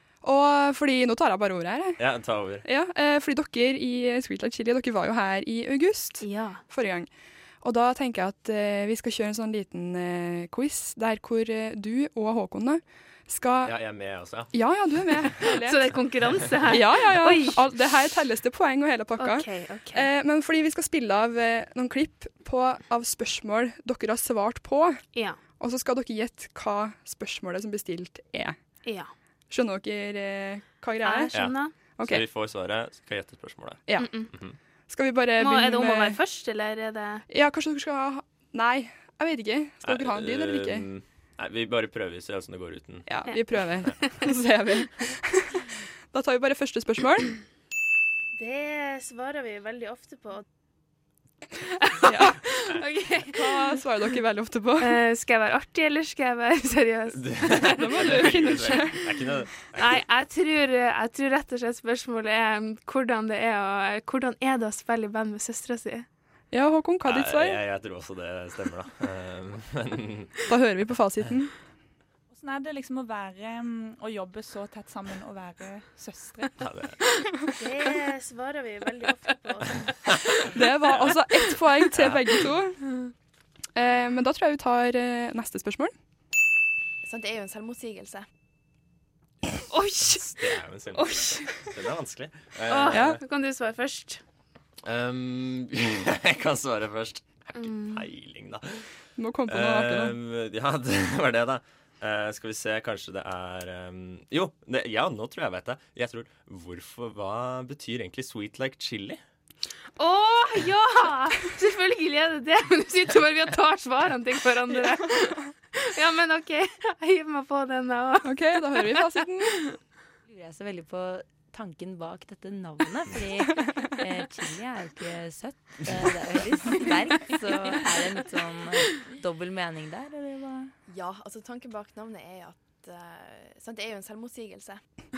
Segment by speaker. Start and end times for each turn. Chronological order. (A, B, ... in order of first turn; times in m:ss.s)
0:00.2-0:02.0 A
0:02.0-0:02.6 B
0:02.6-0:13.8 A
0:06.2-0:06.6 C
0:13.6-0:14.5 B
0:14.5-0:15.9 A
0:15.1-0:15.4 B
0:15.4-0:17.6 C
0:16.7-0:25.0 A
0:19.2-0:20.1 C
0:25.1-0:25.4 C
0:25.6-0:28.7 A
0:28.8-0:29.1 C
0:29.5-0:32.2 A
0:31.0-0:31.8 C
0:31.3-0:34.6 B
0:34.0-0:34.3 C
0:34.9-0:36.2 A
0:35.4-0:37.2 C
0:37.3-0:40.9 A
0:39.8-0:43.3 B
0:43.1-0:45.6 A
0:46.1-0:47.4 A
0:48.4-0:50.4 C
0:52.0-0:53.8 C
0:52.1-0:52.4 A
0:53.3-0:55.0 A
0:54.8-0:58.8 C
0:57.2-1:00.0 B
0:57.7-0:59.1 A
0:59.8-1:06.1 C
1:06.5-1:07.6 A
1:07.0-1:10.3 B
1:10.5-1:11.5 A
1:12.3-1:16.6 D
1:16.6-1:17.0 B
1:17.6-1:20.1 C
1:20.5-1:22.8 A
1:20.8-1:22.3 B
1:23.8-1:26.0 A
1:27.0-1:28.2 E
1:30.0-1:33.2 B
1:31.0-1:31.5 C
1:32.7-1:34.2 C
1:32.9-1:33.2 A
1:34.8-1:38.9 B
1:37.6-1:38.0 C
1:39.2-1:40.2 A
1:39.5-1:49.2 B
1:50.0-1:59.0 C
1:58.2-1:59.6 A
2:00.3-2:10.4 F
2:06.4-2:07.9 D
2:10.4-2:10.7 D
2:10.9-2:14.8 E